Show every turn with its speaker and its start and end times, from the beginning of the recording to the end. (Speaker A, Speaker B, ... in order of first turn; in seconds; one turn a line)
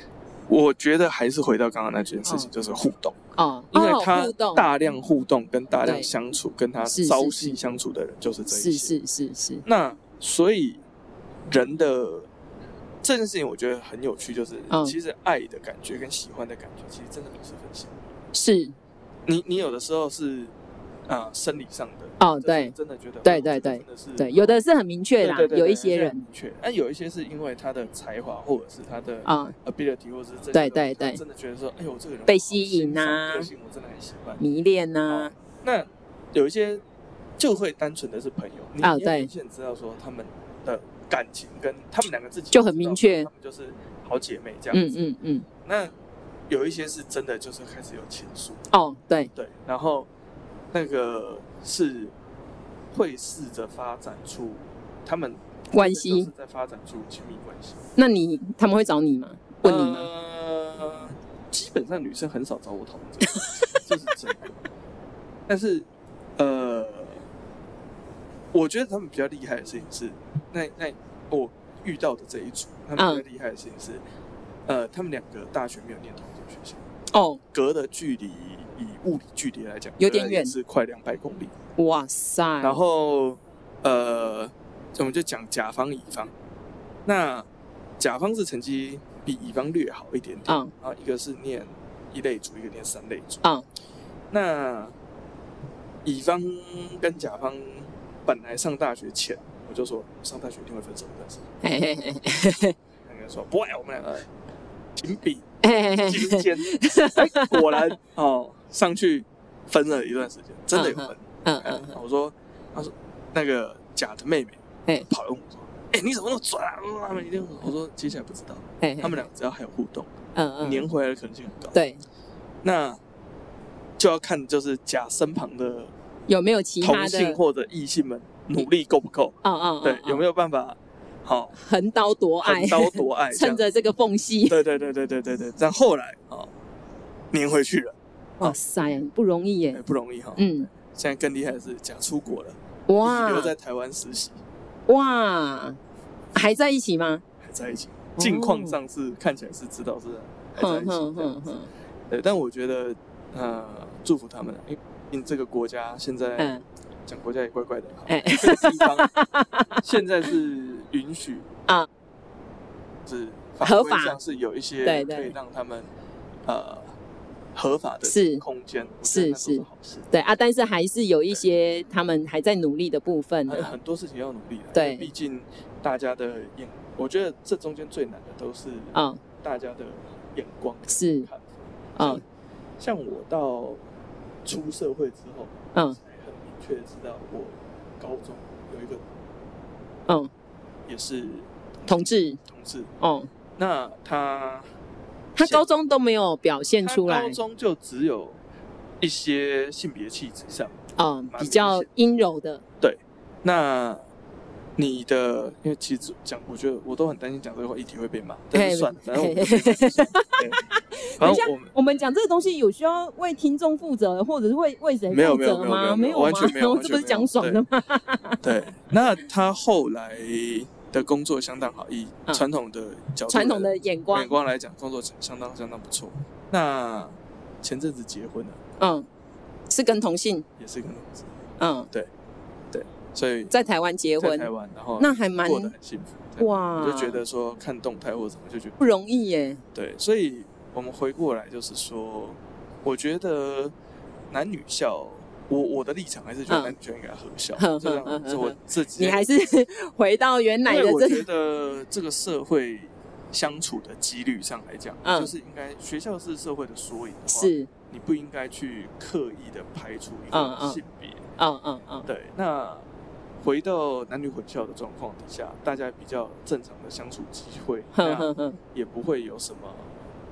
Speaker A: 0.5-3.2
Speaker B: 3.4-4.7
Speaker A: 3.7-9.0
Speaker B: 5.8-6.1
Speaker B: 6.8-7.6
Speaker B: 8.5-9.7
Speaker A: 9.7-10.8
Speaker A: 11.5-12.3
Speaker A: 13.0-18.1
Speaker B: 14.7-14.9
Speaker B: 18.3-18.8
Speaker A: 19.3-20.5
Speaker A: 21.1-24.6
Speaker B: 22.2-26.2
Speaker A: 25.2-34.4
Speaker B: 29.2-29.6
Speaker B: 30.5-31.2
Speaker B: 32.3-33.5
Speaker B: 34.4-35.3
Speaker A: 35.1-36.8
Speaker A: 37.4-45.0
Speaker B: 38.8-39.3
Speaker B: 42.5-43.3
Speaker B: 44.7-45.5
Speaker A: 45.6-45.9
Speaker A: 46.5-48.7
Speaker B: 48.7-49.3
Speaker A: 49.4-50.1
Speaker A: 50.7-52.1
Speaker A: 52.9-57.8
Speaker B: 55.7-56.3
Speaker B: 58.0-60.1
Speaker A: 59.6-64.6
Speaker B: 63.2-63.8
Speaker A: 65.5-67.2
Speaker A: 68.5-74.0
Speaker B: 73.0-73.2
Speaker A: 74.7-76.8
Speaker B: 77.1-77.4
Speaker A: 77.5-81.5
Speaker B: 80.0-80.5
Speaker B: 81.8-82.8
Speaker A: 82.6-86.3
Speaker A: 87.0-87.5
Speaker A: 88.0-93.4
Speaker B: 90.5-90.7
Speaker A: 94.3-95.0
Speaker A: 96.0-101.5
Speaker B: 101.6-102.8
Speaker A: 103.0-104.3
Speaker A: 105.0-121.8
Speaker B: 105.6-108.0
Speaker B: 110.7-112.0
Speaker B: 118.8-119.3
Speaker B: 120.3-120.9
Speaker B: 121.7-122.0
Speaker A: 122.6-123.0
Speaker A: 124.0-125.9
Speaker B: 126.3-127.4
Speaker A: 126.8-131.5
Speaker B: 129.4-130.2
Speaker B: 131.5-134.6
Speaker A: 132.4-133.6
Speaker A: 134.5-136.5
Speaker A: 137.3-138.6
Speaker B: 138.4-139.8
Speaker A: 139.7-144.4
Speaker B: 140.4-140.7
Speaker B: 142.9-143.5
Speaker B: 144.9-145.8
Speaker B: 146.3-147.2
Speaker A: 147.4-151.4
Speaker B: 148.2-148.8
Speaker B: 150.6-151.7
Speaker A: 152.1-156.5
Speaker B: 156.4-156.6
Speaker A: 157.1-159.1
Speaker B: 158.1-159.8
Speaker A: 159.8-161.5
Speaker A: 163.1-165.9
Speaker B: 163.6-164.2
Speaker B: 164.8-165.3
Speaker A: 166.5-167.0
Speaker A: 167.6-170.1
Speaker B: 168.0-168.4
Speaker B: 169.1-173.7
Speaker A: 173.5-182.2
Speaker B: 174.7-175.1
Speaker B: 178.9-179.2
Speaker B: 180.9-181.3
Speaker B: 182.0-182.2
Speaker A: 182.8-183.8
Speaker A: 184.4-189.1
Speaker B: 185.7-186.0
Speaker A: 190.9-192.9
Speaker B: 191.9-192.4
Speaker B: 193.0-193.3
Speaker A: 193.6-194.7
Speaker B: 195.4-197.4
Speaker A: 195.4-195.7
Speaker A: 196.8-198.4
Speaker A: 199.0-200.8
Speaker B: 201.0-202.6
Speaker A: 201.3-201.9
Speaker A: 202.8-204.0
Speaker A: 204.8-210.6
Speaker B: 208.5-218.4
Speaker A: 211.2-211.7
Speaker A: 215.1-217.6
Speaker A: 218.4-228.6
Speaker B: 223.3-224.3
Speaker B: 228.8-229.1
Speaker B: 229.7-230.5
Speaker A: 230.6-231.3
Speaker B: 231.6-231.9
Speaker A: 232.7-233.5
Speaker B: 233.5-235.7
Speaker A: 234.2-238.8
Speaker B: 236.4-237.2
Speaker B: 238.8-239.6
Speaker A: 239.7-243.7
Speaker A: 244.3-249.3
Speaker B: 246.5-246.8
Speaker B: 247.6-251.3
Speaker A: 250.7-261.2
Speaker B: 255.0-255.3
Speaker B: 257.3-257.7
Speaker B: 260.3-260.8
Speaker B: 261.4-262.1
Speaker A: 262.1-262.9
Speaker A: 263.4-269.9
Speaker B: 267.9-268.6